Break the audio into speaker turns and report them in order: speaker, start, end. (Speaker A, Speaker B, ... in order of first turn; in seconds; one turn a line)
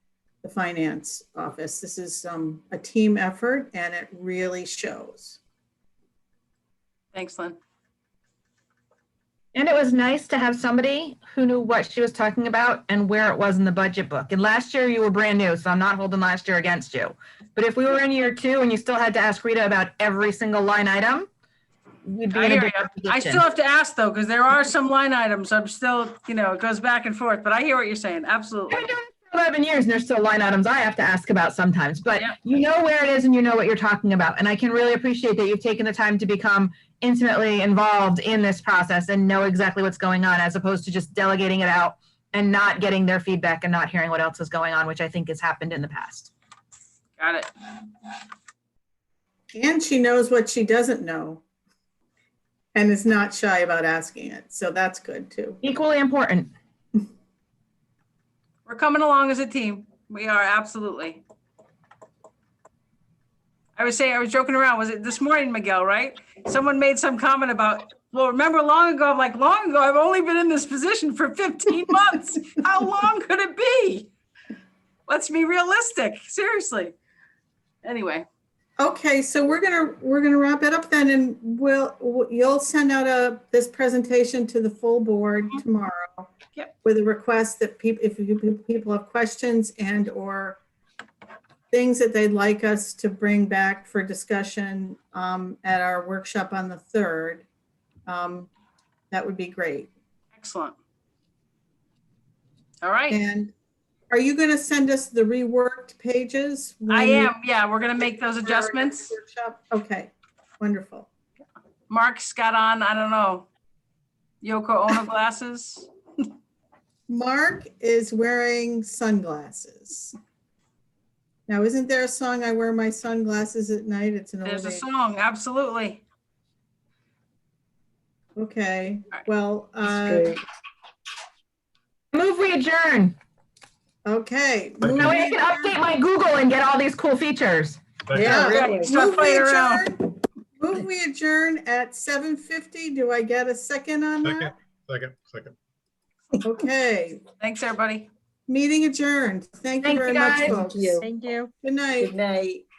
Speaker A: 0.4-5.4
Speaker B: 7.1-7.6
Speaker C: 9.5-21.3
Speaker C: 22.1-23.4
Speaker B: 22.3-28.9
Speaker C: 28.7-46.3
Speaker B: 47.2-47.5
Speaker A: 49.5-51.4
Speaker A: 52.8-55.6
Speaker C: 55.6-56.5
Speaker B: 58.7-61.2
Speaker B: 63.8-74.1
Speaker B: 75.1-77.0
Speaker B: 77.8-78.3
Speaker A: 78.8-86.3
Speaker A: 86.8-90.6
Speaker A: 91.7-97.5
Speaker A: 98.1-98.5
Speaker A: 99.1-99.9
Speaker B: 100.4-100.8
Speaker B: 102.8-103.2
Speaker A: 103.1-103.5
Speaker A: 104.1-107.3
Speaker B: 106.9-109.1
Speaker A: 108.0-111.1
Speaker B: 111.9-113.5
Speaker B: 114.4-115.9
Speaker A: 117.1-120.2
Speaker A: 121.5-124.8
Speaker B: 124.4-126.0
Speaker A: 128.4-130.3
Speaker D: 129.8-130.4
Speaker C: 132.1-133.2
Speaker A: 134.1-135.7
Speaker E: 134.8-135.2
Speaker C: 134.9-137.8
Speaker E: 138.1-138.4
Speaker D: 138.1-138.9
Speaker A: 138.2-144.5
Speaker B: 138.3-139.9
Speaker E: 144.2-145.6
Speaker A: 146.4-147.2
Speaker B: 147.4-148.1
Speaker A: 148.5-152.2
Speaker C: 149.8-150.7
Speaker D: 150.4-151.3
Speaker D: 152.0-152.6